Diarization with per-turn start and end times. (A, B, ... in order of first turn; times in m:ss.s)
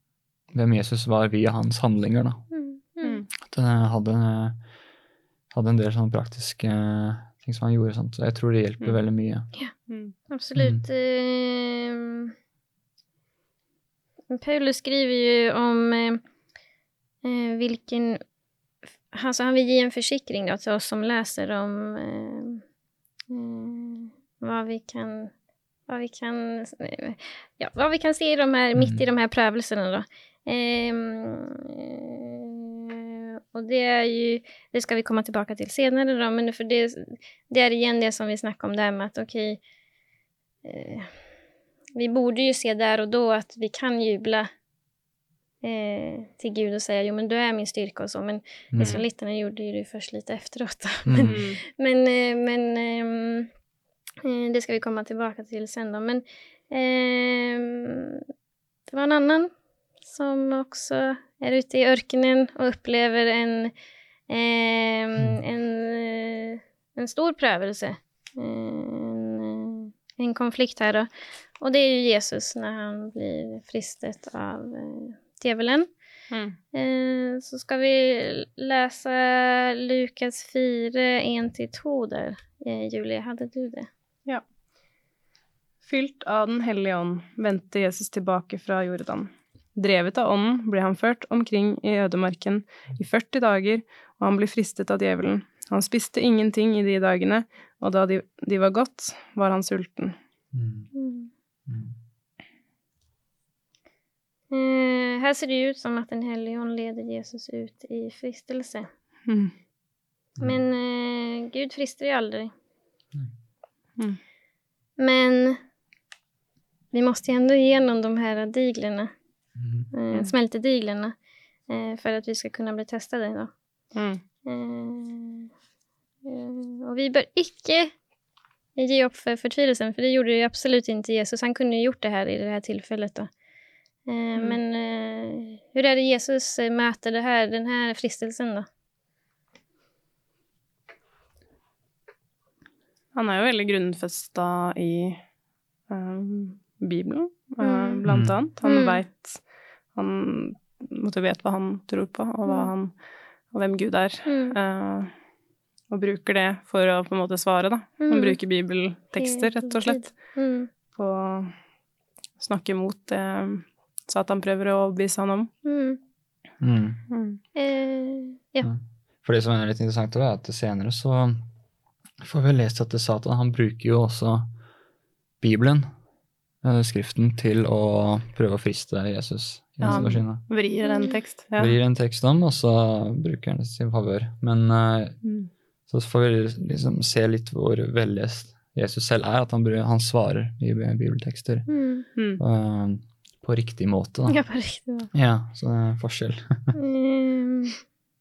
0:00.5-0:02.4 A
0:02.5-0:03.2 B
0:03.0-0:03.3 C
0:03.4-0:04.6 A
0:05.5-0:09.5 A
0:09.9-0:10.1 C
0:10.3-0:12.3 B
0:10.6-0:10.8 A
0:14.3-0:16.2 B
0:17.2-0:18.2 B
0:19.1-0:22.6 B
0:23.3-0:25.3 B
0:25.9-0:39.6 B
0:28.8-0:29.0 A
0:40.6-0:41.1 B
0:41.9-0:44.5 B
0:45.6-0:53.5 B
0:48.7-0:49.0 A
0:51.0-0:51.4 A
0:51.2-0:51.6 C
0:54.2-0:58.2 B
0:58.9-0:59.5 B
1:00.0-1:03.7 B
1:04.3-1:11.1 B
1:11.6-1:15.9 B
1:16.3-1:16.6 C
1:16.7-1:23.9 B
1:25.8-1:40.2 C
1:40.5-1:40.9 A
1:40.9-1:41.3 B
1:41.7-1:41.9 A
1:44.5-1:48.9 B
1:49.3-1:49.5 C
1:50.4-1:52.5 B
1:55.0-1:55.6 B
1:56.9-1:59.1 B
1:59.6-1:59.9 A
1:59.9-2:01.1 B
2:01.7-2:03.5 B
2:03.9-2:04.2 C
2:04.4-2:05.5 B
2:06.2-2:07.9 B
2:08.8-2:13.3 B
2:14.0-2:18.7 B
2:14.4-2:14.6 C
2:23.1-2:25.2 C
2:25.9-2:29.4 C
2:27.6-2:28.0 B
2:28.1-2:28.4 A
2:28.6-2:29.0 B
2:29.9-2:32.9 C
2:32.4-2:32.7 B
2:33.5-2:35.1 C
2:34.3-2:34.6 B
2:35.9-2:40.2 C
2:38.0-2:38.4 B
2:39.2-2:40.7 B
2:40.9-2:41.5 C
2:42.4-2:45.5 C
2:45.6-2:46.0 B
2:46.6-2:47.0 A
2:47.1-2:47.4 C
2:47.5-2:48.7 B
2:48.6-2:51.4 A
2:52.2-2:54.5 A
2:55.4-2:55.9 A
2:56.6-3:00.4 A
2:59.8-3:01.8 C
3:00.8-3:01.1 B
3:01.6-3:05.2 A
3:05.2-3:05.5 C
3:05.9-3:11.7 A
3:11.7-3:12.0 B
3:12.4-3:14.4 A
3:14.3-3:15.1 B
3:15.1-3:16.7 A
3:16.7-3:17.8 B